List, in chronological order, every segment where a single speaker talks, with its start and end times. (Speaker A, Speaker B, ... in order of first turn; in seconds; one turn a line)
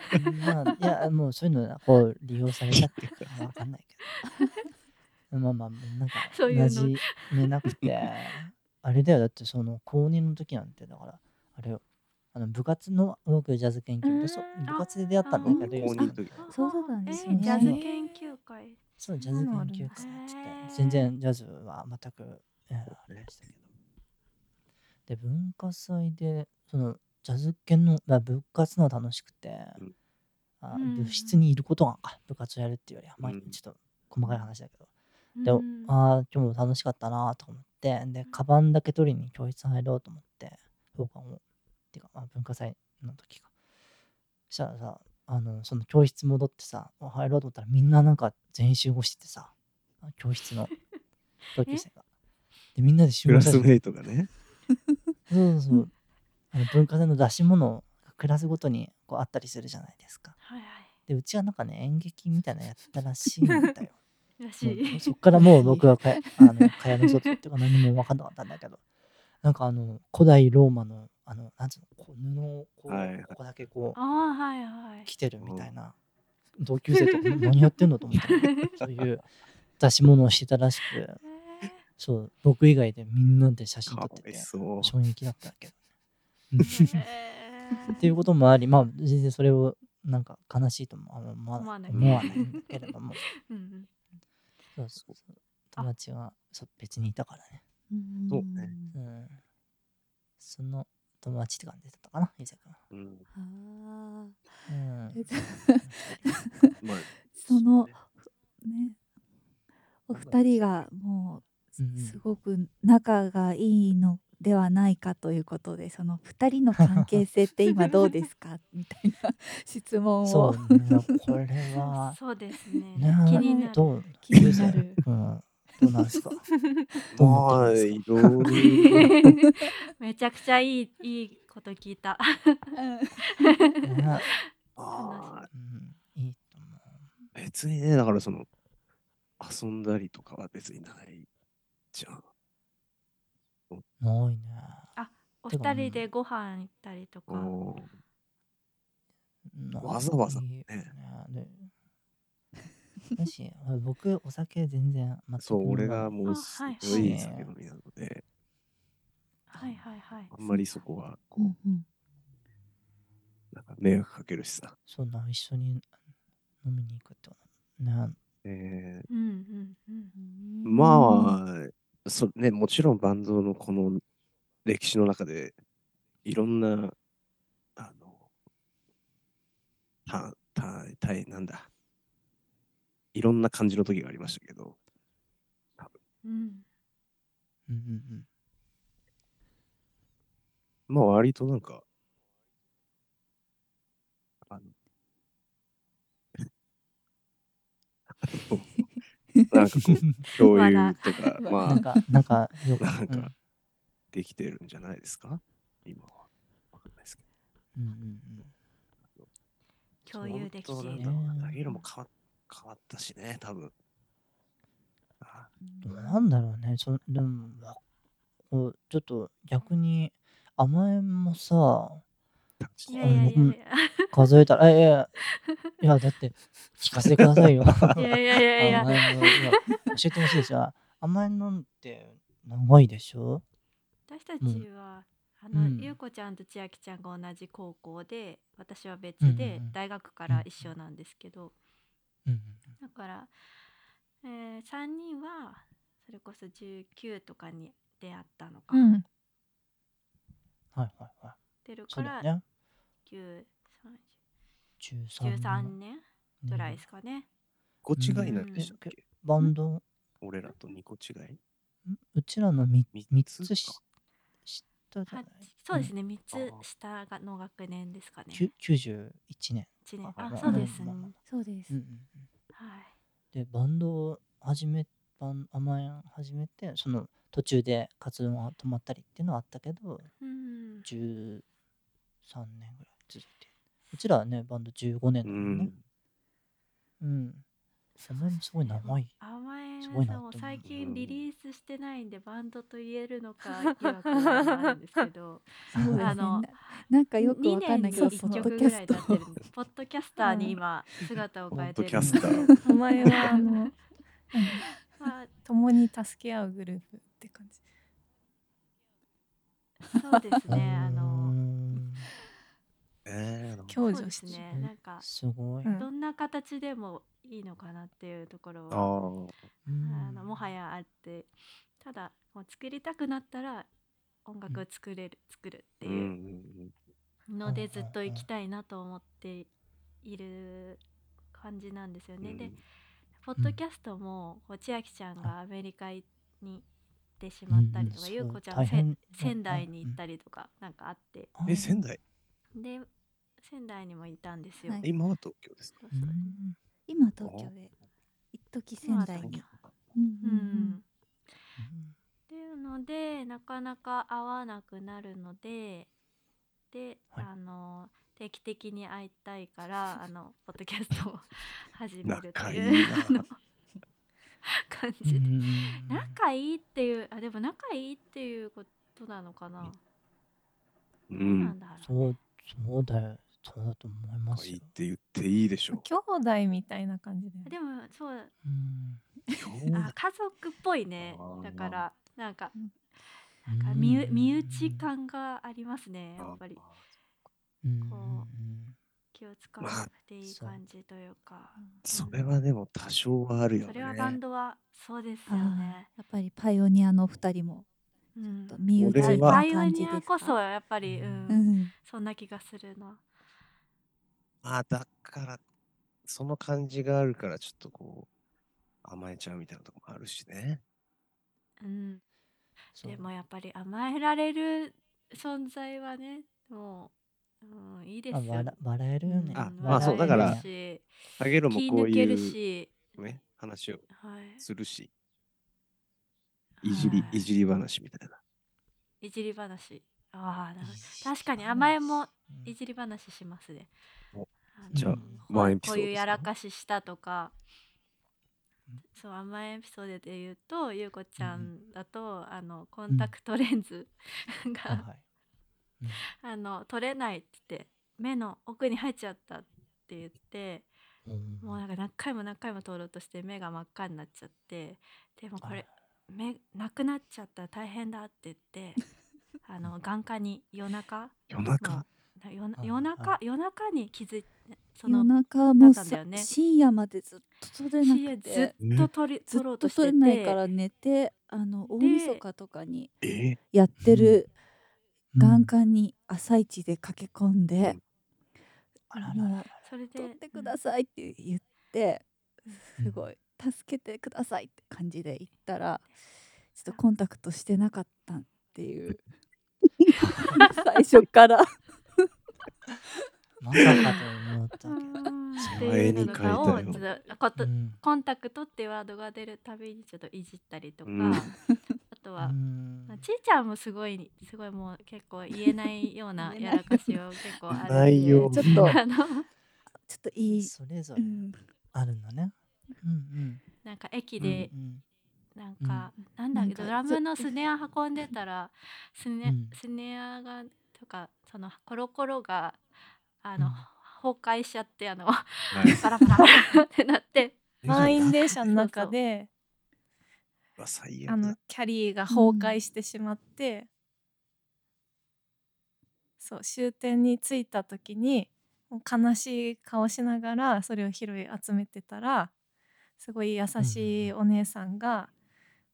Speaker A: 0.1-4.0
Speaker B: 2.7-3.3
Speaker A: 5.3-11.8
Speaker C: 6.3-7.5
Speaker A: 12.3-16.5
Speaker D: 14.0-14.6
Speaker C: 14.7-18.8
Speaker B: 15.5-16.4
Speaker E: 15.5-17.8
Speaker A: 17.3-17.8
Speaker D: 17.6-18.1
Speaker A: 19.0-23.7
Speaker D: 19.2-20.0
Speaker C: 19.9-21.1
Speaker A: 25.1-29.8
Speaker A: 30.6-34.9
Speaker C: 30.7-31.4
Speaker B: 33.2-33.6
Speaker C: 35.4-35.9
Speaker A: 35.5-41.4
Speaker A: 41.9-43.5
Speaker A: 44.5-50.7
Speaker A: 51.5-52.0
Speaker A: 52.8-53.7
Speaker B: 53.3-54.3
Speaker A: 55.3-56.0
Speaker A: 56.5-60.4
Speaker C: 60.4-60.9
Speaker A: 61.1-64.0
Speaker C: 64.4-65.2
Speaker A: 64.6-68.8
Speaker E: 65.3-66.4
Speaker A: 69.4-74.0
Speaker B: 72.9-73.3
Speaker C: 74.0-75.1
Speaker A: 75.1-76.0
Speaker B: 75.4-75.7
Speaker A: 76.6-79.3
Speaker C: 78.4-78.7
Speaker A: 79.8-81.2
Speaker C: 81.2-81.8
Speaker A: 82.0-85.8
Speaker B: 83.9-84.9
Speaker A: 86.5-87.0
Speaker C: 86.6-88.1
Speaker A: 88.0-93.2
Speaker C: 91.6-93.9
Speaker B: 91.9-92.4
Speaker A: 94.8-97.6
Speaker E: 97.9-99.0
Speaker B: 98.3-98.7
Speaker A: 98.9-99.4
Speaker A: 100.4-102.8
Speaker B: 102.9-103.3
Speaker E: 103.3-104.4
Speaker A: 104.7-106.4
Speaker E: 105.1-106.7
Speaker B: 106.8-108.0
Speaker E: 107.3-109.0
Speaker E: 110.1-121.3
Speaker B: 110.1-110.9
Speaker A: 111.8-112.2
Speaker A: 116.8-117.2
Speaker A: 120.2-122.2
Speaker C: 122.0-123.8
Speaker A: 123.0-126.5
Speaker E: 123.3-125.0
Speaker B: 124.4-124.8
Speaker B: 127.1-129.2
Speaker A: 127.2-129.3
Speaker C: 128.6-135.4
Speaker E: 132.8-133.3
Speaker A: 133.8-134.3
Speaker B: 134.8-135.5
Speaker A: 135.5-137.1
Speaker B: 137.3-138.5
Speaker B: 139.4-141.3
Speaker B: 141.9-142.3
Speaker A: 144.0-144.9
Speaker C: 145.0-147.6
Speaker A: 145.5-146.1
Speaker B: 147.3-147.9
Speaker A: 149.5-151.7
Speaker B: 149.8-150.9
Speaker A: 153.2-156.2
Speaker B: 155.4-158.2
Speaker C: 156.3-157.2
Speaker A: 156.8-157.5
Speaker C: 159.5-160.3
Speaker B: 160.3-161.6
Speaker E: 160.5-160.8
Speaker E: 161.4-161.9
Speaker B: 163.5-164.8
Speaker A: 164.9-165.9
Speaker A: 166.6-168.2
Speaker B: 168.4-169.1
Speaker C: 169.1-170.1
Speaker E: 170.1-171.4
Speaker B: 170.7-174.0
Speaker B: 174.7-175.6
Speaker B: 176.2-176.9
Speaker B: 177.8-178.3
Speaker B: 180.1-181.7
Speaker B: 183.1-184.8
Speaker C: 186.2-186.7
Speaker A: 187.7-188.3
Speaker B: 190.9-191.8
Speaker B: 194.5-194.7
Speaker B: 198.2-198.8
Speaker B: 199.5-202.0
Speaker C: 200.2-201.4
Speaker E: 201.4-202.0
Speaker A: 201.7-203.3
Speaker B: 202.8-203.3
Speaker B: 204.1-207.2
Speaker A: 207.7-208.5
Speaker B: 209.0-209.3
Speaker C: 210.1-211.3
Speaker B: 210.1-213.7
Speaker A: 210.3-211.6
Speaker B: 215.2-215.5
Speaker E: 215.6-216.2
Speaker A: 215.8-217.8
Speaker A: 218.5-222.0
Speaker B: 222.6-223.4
Speaker C: 222.9-224.3
Speaker A: 223.0-223.6
Speaker A: 224.1-225.1
Speaker A: 225.8-233.4
Speaker B: 227.0-228.0
Speaker C: 228.0-229.8
Speaker B: 228.6-228.9
Speaker C: 234.1-241.5
Speaker A: 234.4-234.7
Speaker A: 235.5-236.0
Speaker A: 239.2-239.8
Speaker A: 240.3-240.7
Speaker A: 242.2-242.7
Speaker C: 242.8-243.3
Speaker C: 244.2-248.9
Speaker D: 248.7-249.1
Speaker A: 250.7-251.4
Speaker C: 251.6-252.3
Speaker A: 251.9-252.4
Speaker C: 253.1-254.1
Speaker A: 254.8-255.8
Speaker C: 255.2-257.3
Speaker A: 256.4-256.8
Speaker B: 257.9-259.0
Speaker A: 258.0-259.8
Speaker C: 258.3-258.7
Speaker B: 260.2-261.4
Speaker A: 261.9-263.8
Speaker B: 262.9-263.8
Speaker A: 264.5-265.9
Speaker C: 265.1-268.5
Speaker B: 266.3-266.6
Speaker A: 268.3-272.2
Speaker C: 269.9-271.1
Speaker B: 270.2-270.5
Speaker E: 270.4-270.8
Speaker E: 271.3-271.8
Speaker C: 272.6-272.9
Speaker A: 273.3-280.1
Speaker C: 280.2-280.9
Speaker A: 280.8-281.4
Speaker A: 282.2-285.7
Speaker B: 285.2-285.8
Speaker A: 287.0-287.4
Speaker A: 288.0-289.2
Speaker C: 288.7-303.7
Speaker A: 289.8-290.7
Speaker B: 290.6-291.2
Speaker D: 293.6-295.0
Speaker E: 295.7-299.2
Speaker A: 295.7-296.2
Speaker D: 297.9-298.5
Speaker D: 300.2-300.6
Speaker A: 301.5-302.5
Speaker B: 301.6-303.3
Speaker D: 302.6-303.8
Speaker D: 304.3-304.6
Speaker C: 305.0-305.3
Speaker D: 305.4-307.6
Speaker E: 309.9-310.2
Speaker C: 309.9-311.4
Speaker A: 310.4-312.1
Speaker B: 313.1-313.8
Speaker D: 313.7-314.5
Speaker C: 313.8-315.1
Speaker A: 314.5-315.7
Speaker D: 315.6-315.9
Speaker C: 315.7-318.9
Speaker B: 318.7-319.3
Speaker A: 319.6-320.5
Speaker C: 319.8-323.7
Speaker C: 324.2-326.1
Speaker B: 325.8-326.7
Speaker C: 327.3-329.5
Speaker A: 327.4-328.3
Speaker C: 330.0-330.8
Speaker C: 331.3-332.6
Speaker B: 332.2-332.6
Speaker C: 333.2-336.6
Speaker C: 337.2-341.3
Speaker A: 337.5-340.0
Speaker A: 341.4-341.8
Speaker B: 341.5-342.0
Speaker C: 342.6-342.9
Speaker C: 343.4-344.8
Speaker E: 344.6-344.9
Speaker B: 344.8-346.1
Speaker C: 345.8-346.4
Speaker A: 345.9-346.6
Speaker E: 346.9-347.7
Speaker B: 347.2-347.5
Speaker E: 348.3-350.8
Speaker C: 348.8-349.6
Speaker B: 349.1-349.6
Speaker C: 350.2-350.8
Speaker A: 351.6-351.9
Speaker C: 352.3-355.9
Speaker C: 356.7-363.4
Speaker B: 362.1-363.2
Speaker C: 364.4-369.8
Speaker A: 365.0-366.2
Speaker B: 371.1-371.6
Speaker C: 371.2-371.9
Speaker A: 371.8-374.7
Speaker B: 374.3-375.8
Speaker D: 375.7-377.5
Speaker C: 377.4-378.3
Speaker A: 378.4-379.1
Speaker B: 379.3-379.9
Speaker C: 379.7-382.5
Speaker B: 381.0-381.8
Speaker A: 383.5-384.9
Speaker C: 383.6-386.6
Speaker B: 386.2-386.8
Speaker A: 387.6-388.8
Speaker C: 387.9-388.3
Speaker C: 389.1-392.2
Speaker B: 389.6-389.9
Speaker A: 390.2-390.6
Speaker E: 391.6-391.8
Speaker B: 391.9-394.2
Speaker C: 393.6-395.9
Speaker E: 395.3-397.7
Speaker C: 398.2-403.0
Speaker E: 398.5-400.4
Speaker B: 398.8-399.4
Speaker A: 400.9-401.3
Speaker E: 401.3-401.7
Speaker B: 404.4-405.4
Speaker B: 406.1-408.1
Speaker B: 408.8-410.6
Speaker C: 411.6-412.0
Speaker A: 412.8-413.1
Speaker C: 412.8-422.9
Speaker A: 418.1-420.5
Speaker B: 419.4-420.4
Speaker B: 421.2-422.4
Speaker B: 422.9-424.9
Speaker C: 423.9-424.4
Speaker C: 426.6-427.3
Speaker B: 426.6-428.2
Speaker A: 426.8-427.1
Speaker C: 429.0-433.7
Speaker A: 430.6-432.5
Speaker B: 434.1-436.3
Speaker C: 434.6-437.3
Speaker A: 434.7-435.3
Speaker C: 438.9-444.9
Speaker A: 441.2-441.5
Speaker A: 442.9-443.1
Speaker A: 444.7-445.0
Speaker C: 445.9-450.7
Speaker A: 451.1-451.6
Speaker C: 451.4-458.8
Speaker A: 455.4-455.7
Speaker C: 459.4-466.3
Speaker B: 461.3-461.9
Speaker A: 462.6-463.2
Speaker E: 464.9-468.5
Speaker C: 467.8-470.4
Speaker B: 468.6-468.9
Speaker E: 469.3-472.9
Speaker C: 471.8-472.2
Speaker B: 473.0-473.4
Speaker E: 473.5-474.3
Speaker A: 473.8-474.2
Speaker A: 475.1-475.5
Speaker E: 475.2-477.8
Speaker A: 478.9-479.6
Speaker E: 478.9-485.9
Speaker C: 479.6-480.6
Speaker A: 482.8-483.1
Speaker E: 486.5-489.1
Speaker E: 490.0-491.6
Speaker A: 490.1-490.4
Speaker A: 493.4-495.8
Speaker B: 493.6-493.8
Speaker C: 493.7-494.1
Speaker C: 494.6-501.3
Speaker B: 495.5-496.8
Speaker A: 497.4-497.8
Speaker B: 500.9-501.3
Speaker C: 501.9-509.3
Speaker A: 502.2-503.1
Speaker E: 506.2-508.8
Speaker B: 507.6-508.7
Speaker A: 508.5-508.8
Speaker E: 509.9-511.4
Speaker A: 510.2-513.4
Speaker C: 513.6-514.5
Speaker A: 514.2-514.8
Speaker C: 515.4-522.6
Speaker A: 515.6-515.9
Speaker E: 516.3-517.3
Speaker A: 519.2-519.6
Speaker C: 523.2-529.0
Speaker A: 523.4-523.6
Speaker B: 525.5-525.8
Speaker B: 527.6-528.5
Speaker D: 527.7-529.3
Speaker B: 530.6-531.4
Speaker D: 531.1-533.7
Speaker E: 532.1-532.6
Speaker D: 536.2-542.3
Speaker D: 543.0-545.1
Speaker A: 543.6-544.1